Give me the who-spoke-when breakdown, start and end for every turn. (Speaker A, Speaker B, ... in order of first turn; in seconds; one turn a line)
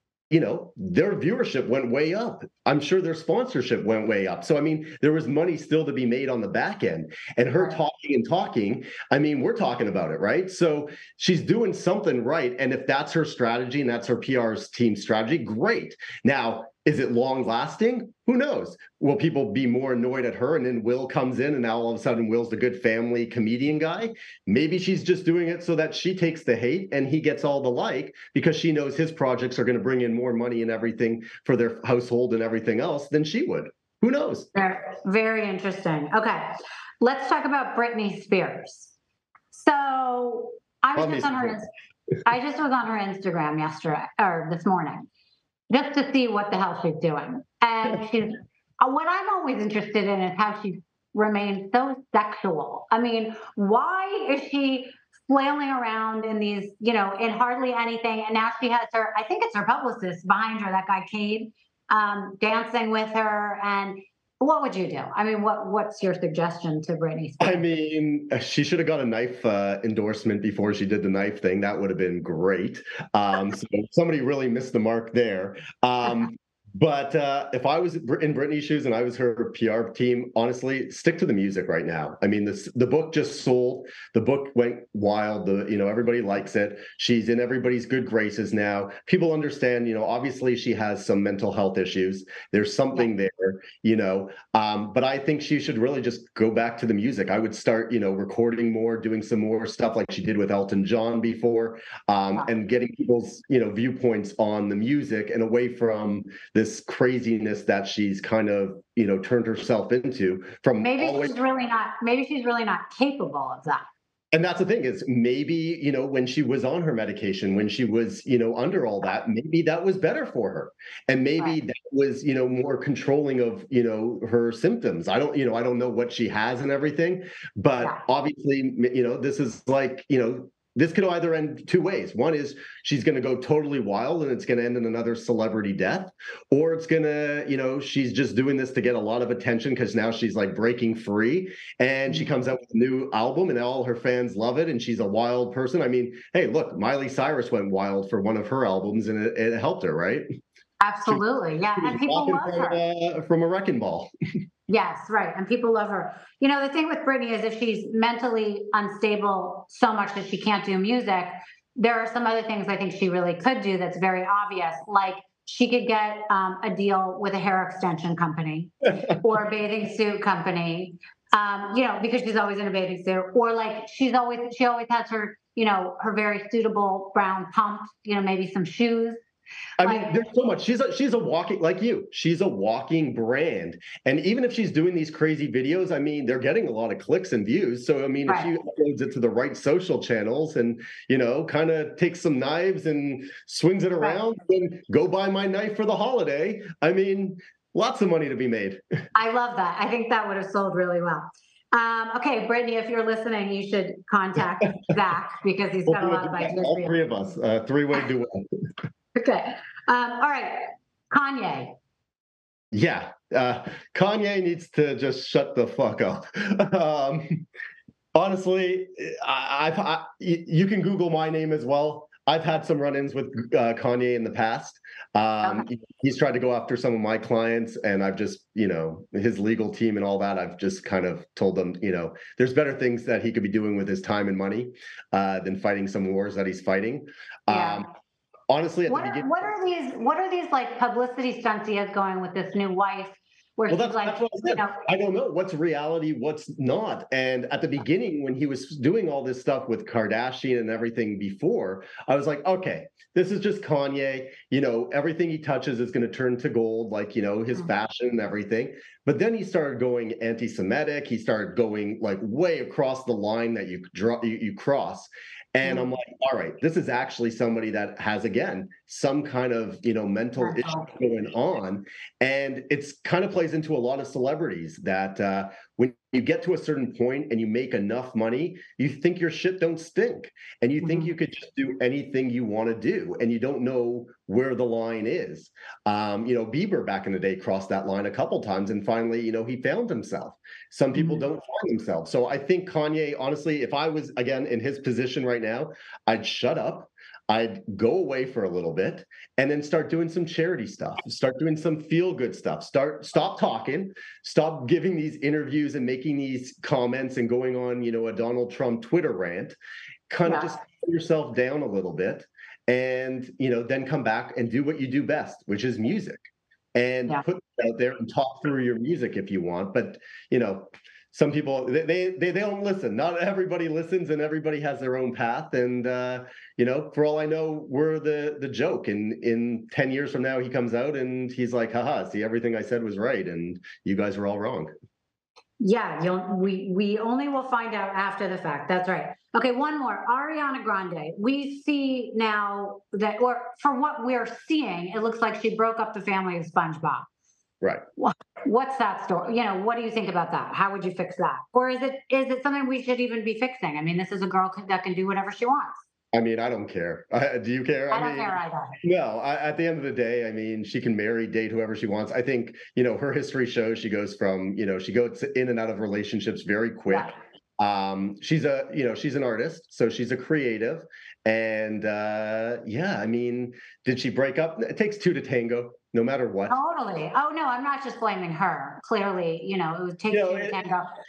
Speaker A: 0.3-34.5
Speaker B: 34.5-38.9
Speaker B: 39.5-41.7
Speaker A: 40.9-41.6
Speaker B: 42.2-45.0
Speaker B: 45.7-67.6
Speaker A: 67.4-111.3
Speaker B: 110.8-113.8
Speaker A: 114.3-150.2
Speaker B: 150.8-152.8
Speaker A: 151.8-154.1
Speaker B: 154.7-179.2
Speaker A: 179.8-198.8
Speaker B: 179.8-180.2
Speaker B: 199.1-207.0
Speaker A: 205.8-208.5
Speaker B: 209.1-211.7
Speaker A: 212.7-217.4
Speaker A: 218.1-237.9
Speaker B: 237.5-237.8
Speaker A: 238.5-239.5
Speaker B: 238.9-244.8
Speaker A: 243.7-309.6
Speaker B: 270.4-270.9
Speaker B: 280.8-281.1
Speaker B: 290.9-291.2
Speaker A: 310.1-316.2
Speaker B: 310.2-310.5
Speaker A: 316.7-334.7
Speaker B: 335.6-347.1
Speaker B: 348.0-355.8
Speaker A: 356.1-376.6
Speaker B: 357.9-358.8
Speaker B: 376.5-380.9
Speaker A: 380.1-380.6